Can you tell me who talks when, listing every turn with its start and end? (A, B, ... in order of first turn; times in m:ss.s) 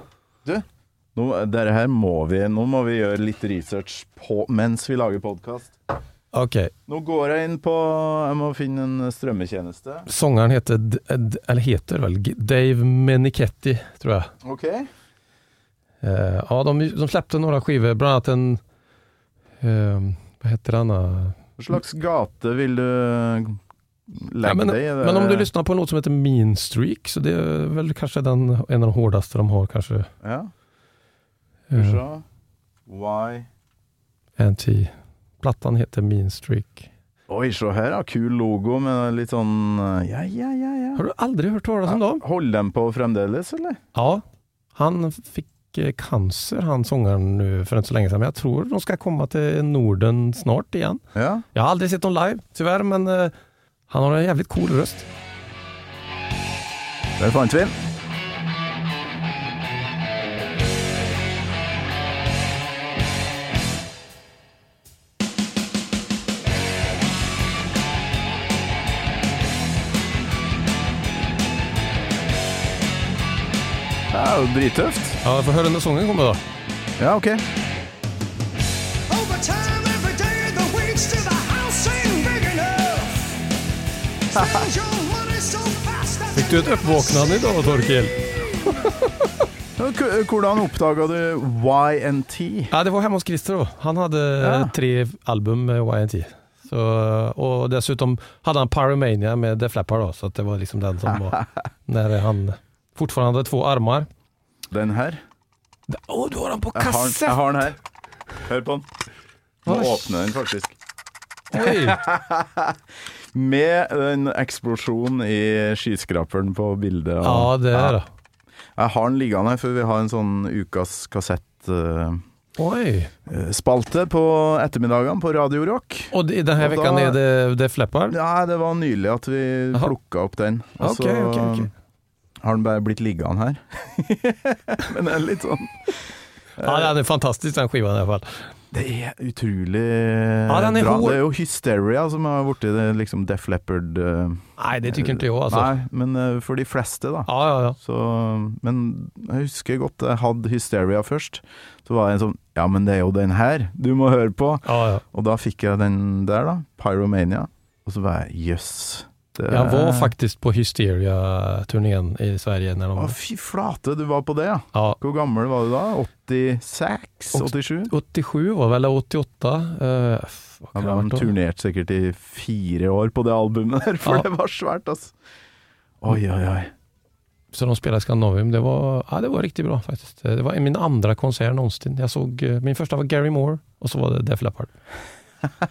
0:00.4-0:05.8 A
0:06.3-0:06.7 B
0:06.9-0:10.1 A
0:10.1-0:14.3 B
0:14.4-0:14.9 A
0:16.0-0:18.6 B
0:19.6-0:21.4 B
0:21.6-0:25.5 A
0:24.4-0:30.1 B
0:30.2-0:30.5 A
0:31.7-0:32.0 B
0:31.7-0:32.2 A
0:32.9-0:33.5 A
0:34.4-0:36.9 B
0:37.3-0:41.0 A
0:41.0-0:42.2 B
0:41.9-0:43.8 A
0:44.0-0:44.2 B
0:44.8-0:51.0 B
0:51.2-0:51.5 A
0:51.5-0:53.3 B
0:53.9-0:55.1 B
0:57.2-0:57.8 A
1:14.1-1:15.2 A
1:15.2-1:16.4 B
1:17.0-1:17.4 A
1:19.1-1:23.4 C
1:24.3-1:28.8 C
1:24.3-1:24.7 A
1:26.3-1:28.2 B
1:28.8-1:29.3 B
1:29.8-1:32.7 A
1:32.7-1:44.1 B
1:34.4-1:34.7 A
1:44.7-1:45.2 A
1:45.9-1:47.5 B
1:46.7-1:47.8 A
1:48.4-1:48.9 A
1:49.6-1:50.8 A
1:49.7-1:50.1 B
1:51.5-1:52.0 B
1:51.5-1:52.8 A
1:53.3-1:58.0 A
1:57.2-1:58.1 B
1:58.8-2:02.2 A
2:02.6-2:03.1 B
2:03.3-2:07.2 A
2:06.1-2:08.2 B
2:08.1-2:11.7 A
2:10.8-2:11.7 B
2:12.4-2:16.0 A
2:16.6-2:16.9 A
2:16.6-2:18.3 B
2:18.7-2:40.1 A
2:20.5-2:21.2 B
2:24.6-2:25.8 B
2:27.3-2:27.8 B
2:34.6-2:35.0 B
2:39.5-2:43.2 B
2:43.0-2:47.9 A
2:47.3-2:51.3 B
2:50.8-2:55.1 A
2:56.0-2:56.7 A
2:57.5-3:04.7 B